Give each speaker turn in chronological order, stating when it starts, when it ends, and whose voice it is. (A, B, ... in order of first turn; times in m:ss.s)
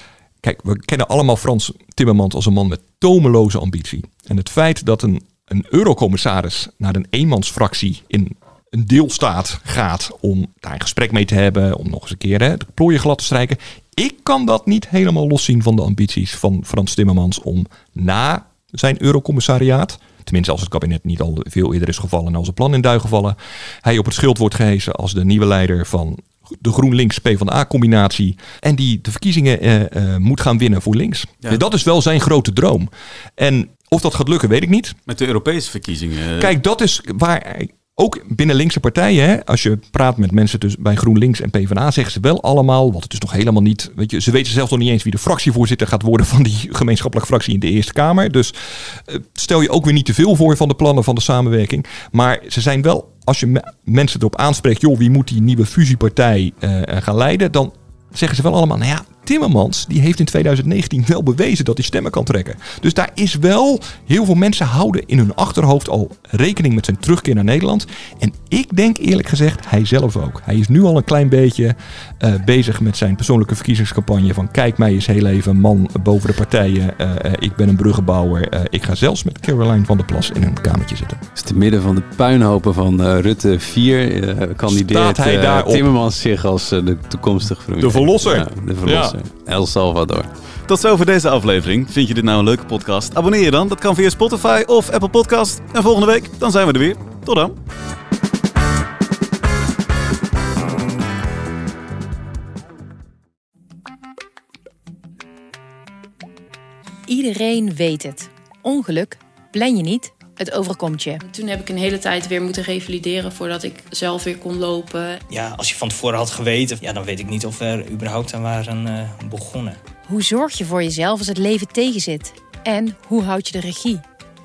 0:00.4-0:35.0 A
0:35.1-0:36.5 B
0:36.4-1:21.2 A
1:21.4-1:30.3 C
1:24.7-1:25.9 A
1:27.8-1:29.2 A
1:30.7-1:37.5 B
1:47.1-1:51.2 D
1:51.2-1:55.2 E
1:55.3-1:59.8 F
2:00.1-2:04.0 D